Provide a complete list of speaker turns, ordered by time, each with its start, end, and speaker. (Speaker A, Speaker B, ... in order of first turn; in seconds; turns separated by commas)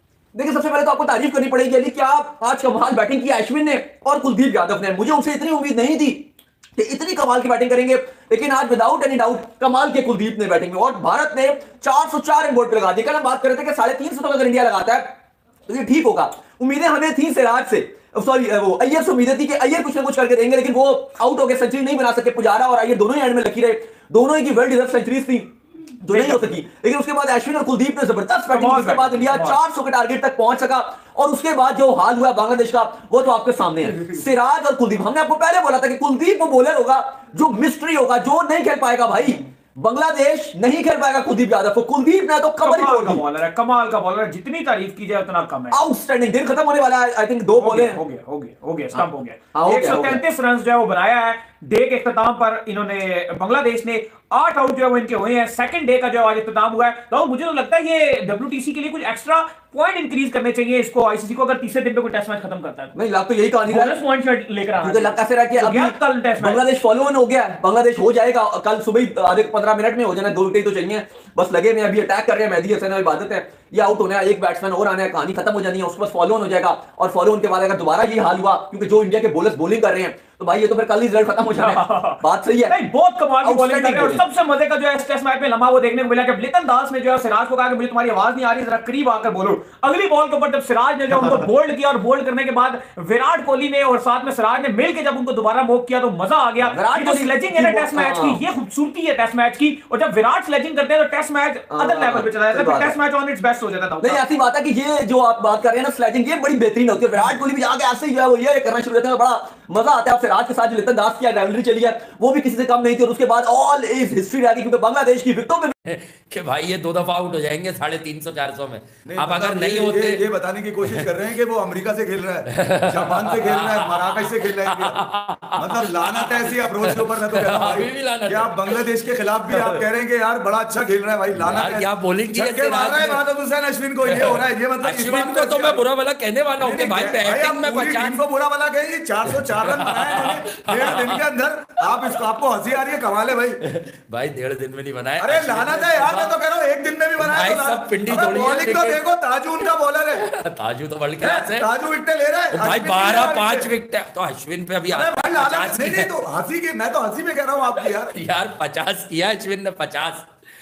Speaker A: 0.3-43.2, Speaker B: 26.1-26.6, Speaker B: 28.5-29.6, Speaker B: 33.9-34.2, Speaker B: 42.6-45.8, Speaker A: 45.7-48.0, Speaker B: 47.5-62.9, Speaker A: 48.9-50.2, Speaker A: 62.9-64.0, Speaker B: 63.7-66.6, Speaker A: 64.8-82.8, Speaker B: 81.5-104.2, Speaker A: 83.4-84.2, Speaker A: 96.6-98.4, Speaker A: 101.7-102.9, Speaker A: 104.0-115.7, Speaker C: 115.8-120.2, Speaker D: 119.1-125.0, Speaker C: 122.5-128.8, Speaker D: 125.6-135.8, Speaker C: 129.5-129.8, Speaker C: 131.3-133.2, Speaker C: 134.1-138.2, Speaker D: 136.6-143.6, Speaker C: 139.3-141.2, Speaker C: 143.6-146.4, Speaker D: 145.2-150.2, Speaker C: 147.2-149.0, Speaker C: 150.1-151.7, Speaker D: 151.2-153.7, Speaker C: 152.5-156.1, Speaker D: 154.9-158.1, Speaker C: 157.8-160.3